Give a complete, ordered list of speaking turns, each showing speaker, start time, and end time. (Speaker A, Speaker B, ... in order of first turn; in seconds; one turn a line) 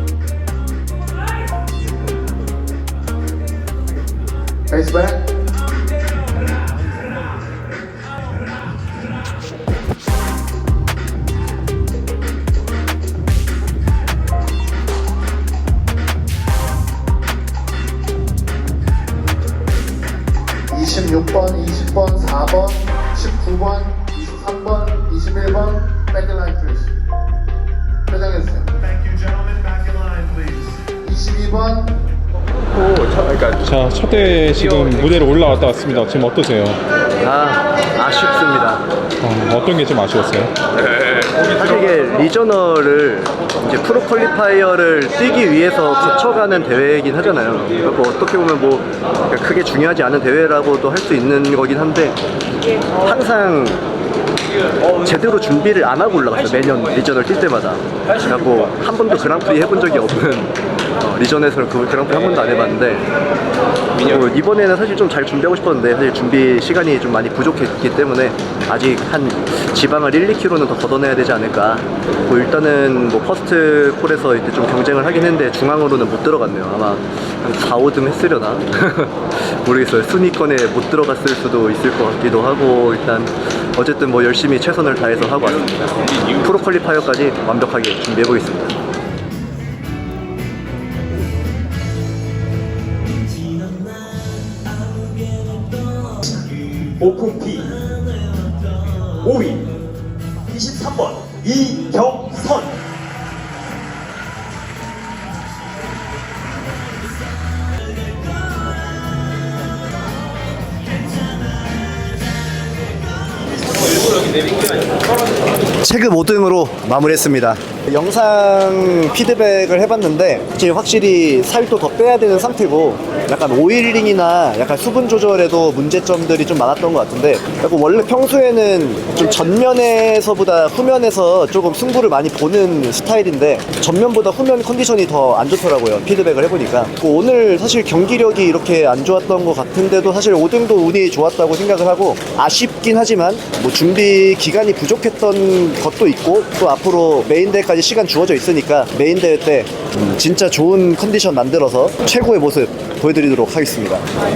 Speaker A: 4.7-5.3
Speaker A: 20.7-26.9
Speaker A: 28.1-28.7
Speaker A: 31.0-32.0
Speaker B: 33.4-36.8
Speaker C: 37.2-38.9
Speaker B: 39.2-40.5
Speaker C: 41.4-52.2
Speaker C: 53.0-53.9
Speaker C: 54.9-63.1
Speaker C: 64.0-88.8
Speaker D: 96.8-97.9
Speaker D: 98.9-99.7
Speaker D: 100.5-102.8
Speaker C: 115.8-154.0